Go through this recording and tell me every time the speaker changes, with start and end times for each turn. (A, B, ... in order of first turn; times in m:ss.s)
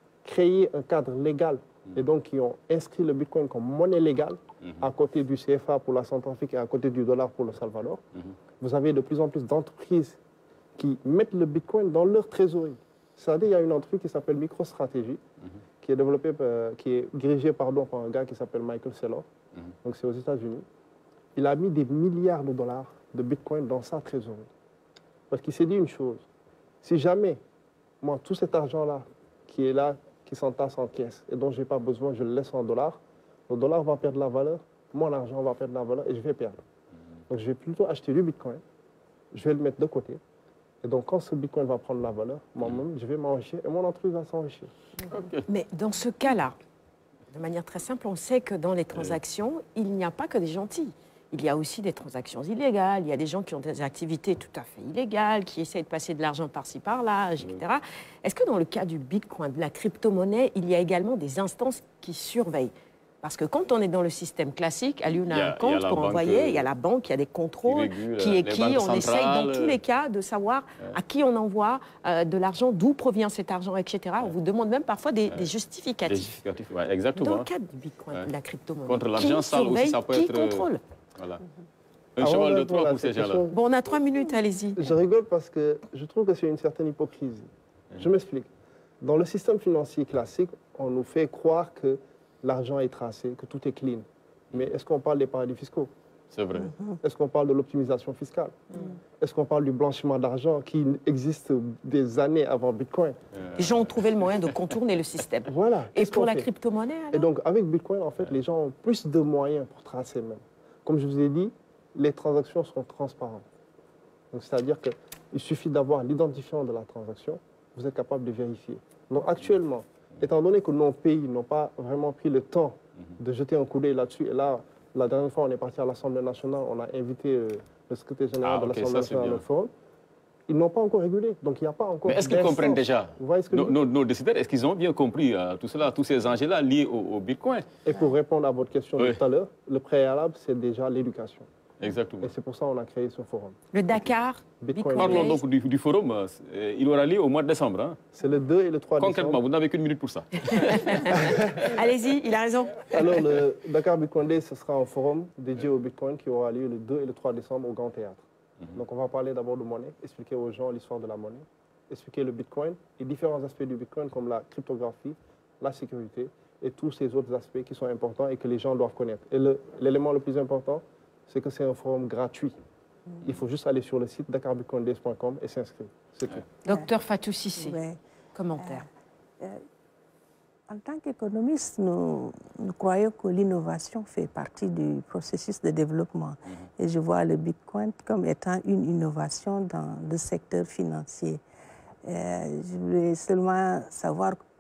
0:00.2-0:08.0 A
0:08.6-0:10.2 A
0:10.8-0:15.2 A
0:15.8-0:19.3 A
0:19.8-0:20.6 A
0:21.4-0:24.5 A
0:25.3-0:26.3 A
0:26.8-0:27.4 A
0:28.0-0:36.6 A
0:37.3-0:38.6 A
0:39.3-0:40.2 A
0:40.8-0:44.7 A
0:45.1-0:45.4 B
0:45.4-0:46.6 C
0:47.3-1:16.3 C
1:05.3-1:06.7 B
1:07.6-1:09.8 B
1:16.0-1:17.5 B
1:17.1-1:20.8 C
1:18.9-1:21.4 B
1:22.2-1:23.4 B
1:22.2-1:23.6 A
1:23.5-1:24.8 C
1:24.8-1:28.5 A
1:29.0-1:35.9 A
1:36.3-1:36.8 B
1:37.0-1:38.6 A
1:39.2-1:43.2 A
1:43.4-1:43.8 B
1:43.6-1:47.3 C
1:45.5-1:46.5 A
1:47.1-1:53.4 A
1:54.3-2:09.7 A
2:08.4-2:09.4 B
2:10.5-2:13.8 A
2:12.1-2:17.6 B
2:17.8-2:21.5 A
2:21.8-2:22.3 B
2:22.2-2:23.6 A
2:23.7-2:25.4 C
2:24.6-2:25.3 A
2:25.0-2:28.0 B
2:28.2-2:29.4 A
2:29.0-2:31.5 B
2:30.5-2:33.2 C
2:31.1-2:31.7 A
2:32.9-2:52.6 A
2:53.2-2:56.4 A
2:56.6-2:57.8 C
2:57.6-2:58.0 D
2:58.3-2:58.9 C
3:00.7-3:11.4 D
3:12.0-3:14.4 D